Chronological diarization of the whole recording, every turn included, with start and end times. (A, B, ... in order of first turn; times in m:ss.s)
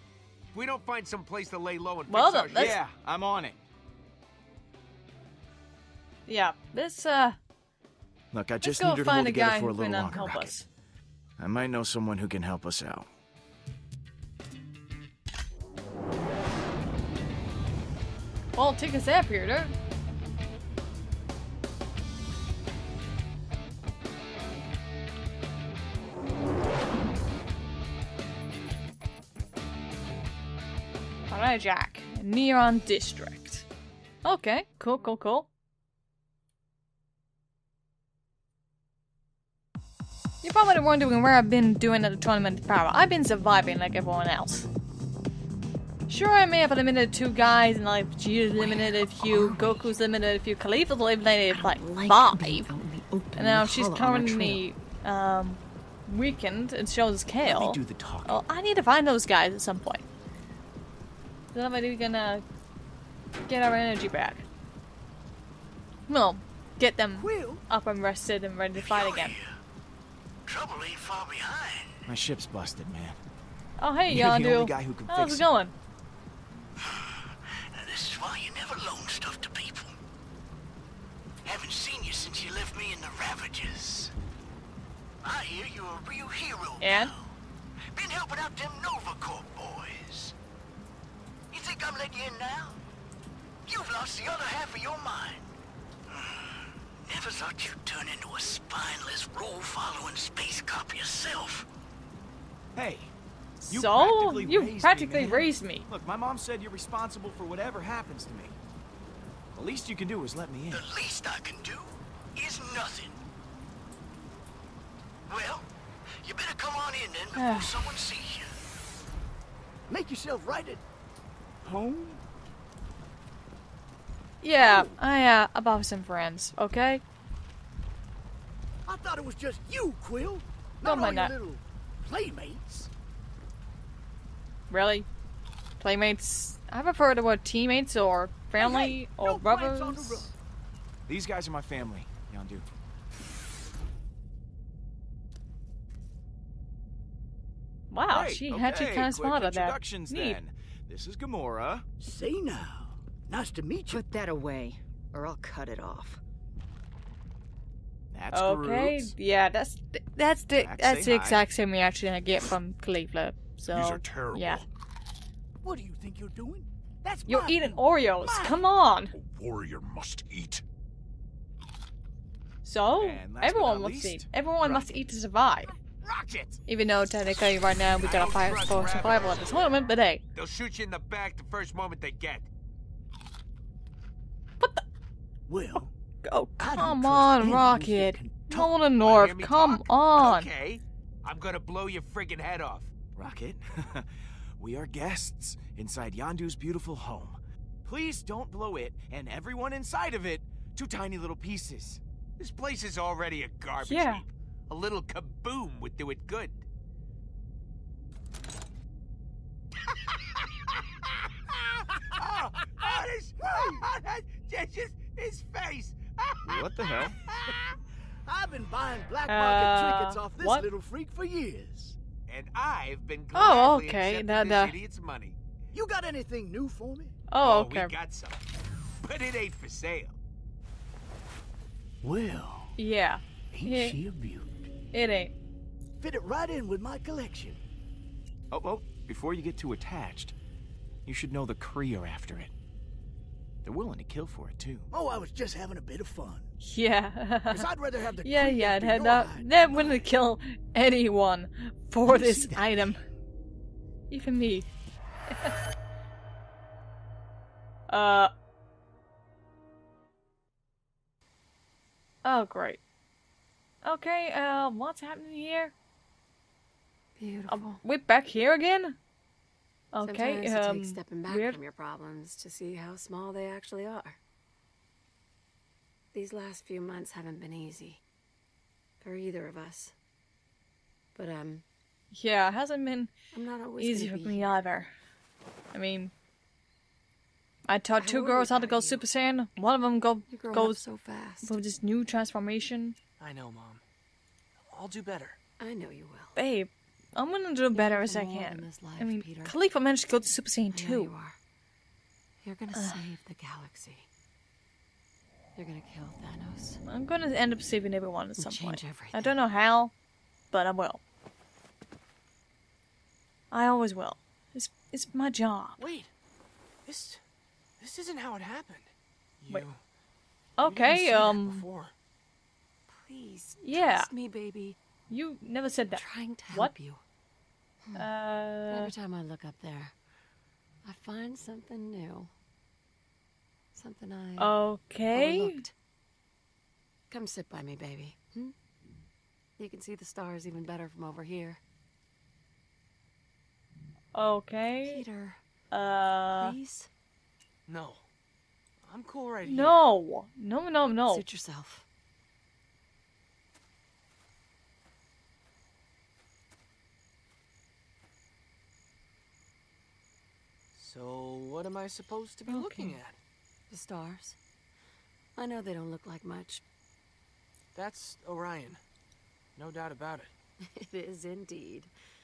0:00.5-0:02.8 A
0:02.1-0:02.8 B
0:02.5-0:03.6 C
0:06.3-0:07.4 B
0:08.3-0:10.6 C
0:08.6-0:10.6 B
0:11.4-0:13.1 C
0:18.6-0:19.7 B
0:31.3-0:33.6 B
0:34.2-0:35.5 B
0:40.4-0:44.7 B
0:46.1-0:52.7 B
0:48.5-0:50.0 D
0:51.5-0:54.6 D
0:53.4-1:00.0 B
0:57.4-0:58.4 C
1:01.5-1:02.4 B
1:03.5-1:04.4 B
1:06.1-1:09.4 B
1:07.2-1:07.6 E
1:08.7-1:09.6 E
1:10.5-1:12.0 E
1:12.0-1:13.2 C
1:13.8-1:15.7 B
1:14.1-1:15.5 C
1:16.8-1:20.0 E
1:21.4-1:24.1 E
1:25.2-1:27.3 E
1:26.8-1:27.1 B
1:27.9-1:30.3 E
1:31.5-1:32.8 E
1:33.6-1:35.5 E
1:36.1-1:41.7 E
1:42.8-1:43.1 C
1:43.6-1:45.8 B
1:43.7-1:48.6 C
1:49.5-1:50.9 C
1:50.7-1:53.2 E
1:55.3-1:55.7 E
1:56.2-1:58.6 E
1:57.3-1:57.7 B
1:59.9-2:00.8 E
2:01.6-2:02.2 E
2:04.4-2:07.0 B
2:04.6-2:05.0 E
2:08.8-2:12.9 E
2:10.8-2:11.3 B
2:14.7-2:15.1 B
2:15.8-2:20.3 B
2:18.5-2:20.3 E
2:21.1-2:22.6 C
2:27.9-2:30.4 B
2:28.0-2:31.8 C
2:32.0-2:34.0 E
2:33.9-2:36.2 D
2:38.1-2:39.1 C
2:38.3-2:44.6 B
2:40.6-2:41.4 C
2:43.7-2:44.7 F
2:45.6-2:48.6 E
2:47.2-2:49.1 B
2:49.1-2:50.6 F
2:52.6-2:55.7 B
2:53.0-2:54.9 C
2:56.0-2:56.6 A
2:56.7-3:00.2 B
2:58.0-2:59.7 A
3:00.3-3:02.5 A
3:04.6-3:04.8 B
3:05.5-3:05.9 E
3:05.8-3:10.5 B
3:06.6-3:08.7 E
3:09.0-3:12.9 A
3:13.1-3:22.0 C
3:22.4-3:26.6 A
3:23.9-3:24.2 B
3:31.5-3:37.8 A
3:33.4-3:33.8 E
3:36.4-3:37.2 C
3:38.2-3:42.0 E
3:39.3-3:40.6 B
3:42.3-3:45.4 A
3:43.3-3:44.7 B
3:45.7-3:47.2 E
3:47.3-3:47.9 B
3:47.4-3:48.4 A
3:49.0-3:50.2 A
3:52.0-3:52.8 E
3:52.8-3:54.0 B
3:53.5-3:54.7 E
3:54.9-3:55.3 B
3:56.0-3:57.6 E
3:58.5-4:00.3 C
4:01.0-4:02.5 C
4:03.6-4:04.9 C
4:04.9-4:06.5 E
4:06.6-4:07.7 B
4:07.5-4:10.1 E
4:08.2-4:13.0 B
4:12.0-4:13.0 E
4:14.1-4:14.7 B
4:15.3-4:15.5 B
4:17.9-4:18.3 B
4:22.2-4:22.8 B
4:23.8-4:25.7 B
4:27.2-4:27.8 G
4:27.5-4:29.0 B
4:29.9-4:31.6 B
4:30.0-4:34.2 G
4:36.1-4:38.0 G
4:39.0-4:39.9 G
4:41.1-4:41.6 G
4:42.1-4:43.1 B
4:43.3-4:44.8 G
4:43.8-4:44.9 B
4:45.7-4:46.1 B
4:47.7-4:50.8 B
4:47.9-4:49.0 G
4:50.3-4:51.6 G
4:51.4-4:53.0 B
4:53.2-4:53.8 H
4:54.6-4:55.4 H
4:55.6-4:56.4 G
4:56.4-5:01.1 B
4:57.7-4:59.6 G
5:00.7-5:01.4 G
5:02.4-5:04.1 G
5:02.7-5:03.0 B
5:05.6-5:06.8 G
5:06.8-5:09.9 B
5:08.4-5:09.3 G
5:10.5-5:11.0 B
5:13.5-5:15.8 B
5:15.8-5:16.1 H
5:16.8-5:17.2 H
5:17.8-5:19.8 H
5:20.6-5:21.6 B
5:20.6-5:21.9 H
5:22.9-5:24.8 G
5:23.6-5:24.1 B
5:25.1-5:26.7 B
5:25.9-5:27.0 G
5:27.8-5:28.1 G
5:27.9-5:28.9 B
5:28.7-5:29.9 G
5:30.8-5:32.3 G
5:33.7-5:34.5 G
5:34.4-5:35.6 B
5:35.1-5:35.7 G
5:37.1-5:38.5 G
5:39.6-5:41.6 G
5:44.1-5:45.0 B
5:44.8-5:45.4 G
5:45.7-5:46.6 B
5:46.3-5:46.9 G
5:47.7-5:48.0 H
5:48.8-5:49.8 H
5:49.4-5:51.2 B
5:51.0-5:51.8 G
6:00.7-6:03.2 H
6:02.5-6:03.0 B
6:03.7-6:04.4 G
6:05.4-6:06.6 G
6:07.7-6:08.8 H
6:09.6-6:10.3 H
6:10.6-6:11.9 G